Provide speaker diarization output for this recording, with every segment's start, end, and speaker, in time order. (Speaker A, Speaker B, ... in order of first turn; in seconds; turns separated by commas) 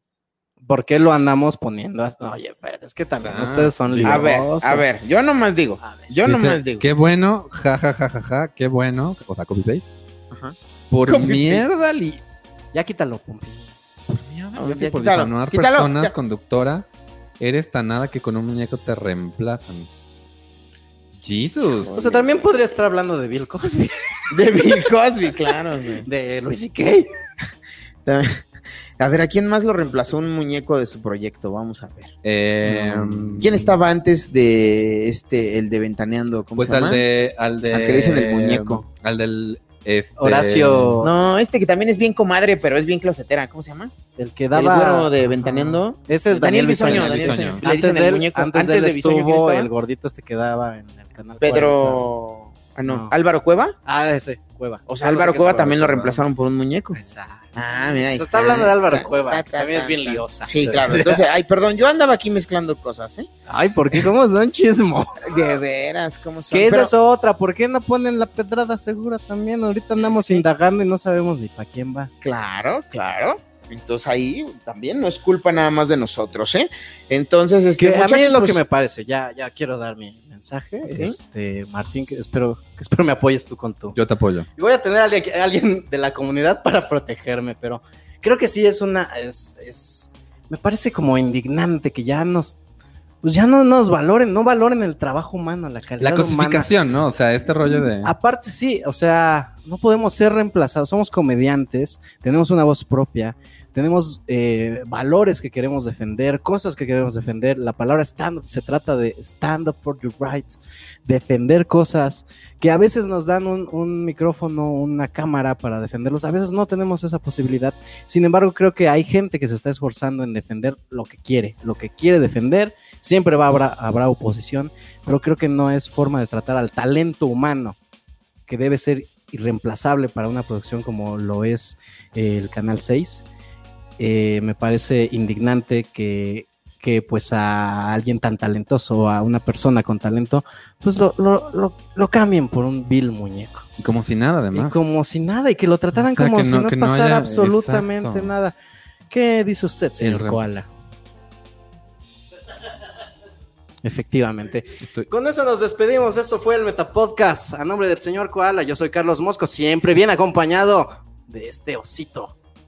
Speaker A: 0.6-4.9, Speaker B: 3.2-4.4, Speaker C: 4.0-6.8, Speaker A: 5.8-6.1, Speaker B: 6.2-10.0, Speaker B: 10.9-12.2, Speaker C: 11.1-11.7, Speaker A: 12.7-13.7, Speaker B: 14.1-16.9, Speaker C: 14.6-16.1, Speaker B: 17.4-19.9, Speaker B: 21.2-22.0, Speaker C: 21.8-22.3, Speaker A: 21.9-23.9, Speaker C: 24.3-26.1, Speaker A: 26.1-27.1, Speaker C: 28.1-28.4, Speaker C: 29.0-32.1, Speaker B: 32.2-33.7, Speaker C: 32.7-37.0, Speaker B: 36.6-41.0, Speaker C: 37.7-38.8, Speaker A: 40.2-41.1, Speaker C: 41.0-43.9, Speaker A: 44.2-52.1, Speaker C: 44.5-49.7, Speaker B: 46.8-47.6, Speaker C: 51.4-53.8, Speaker A: 52.9-53.1, Speaker A: 53.9-55.9, Speaker C: 54.9-57.0, Speaker B: 55.8-56.2, Speaker A: 57.0-57.5, Speaker C: 57.5-63.3, Speaker A: 58.1-61.2, Speaker A: 63.5-65.2, Speaker C: 65.3-66.9, Speaker A: 66.5-72.1, Speaker C: 70.0-70.5, Speaker C: 72.2-78.6, Speaker A: 77.8-84.0, Speaker C: 80.9-81.2, Speaker B: 84.0-84.5, Speaker A: 84.6-92.6, Speaker A: 93.2-96.7, Speaker B: 96.0-98.1, Speaker A: 98.0-127.8, Speaker A: 128.5-133.2, Speaker A: 134.0-143.7, Speaker B: 143.8-144.9, Speaker A: 144.5-148.5, Speaker B: 146.0-148.3, Speaker A: 149.1-150.7, Speaker B: 150.0-150.4, Speaker A: 153.8-162.3, Speaker B: 154.8-155.1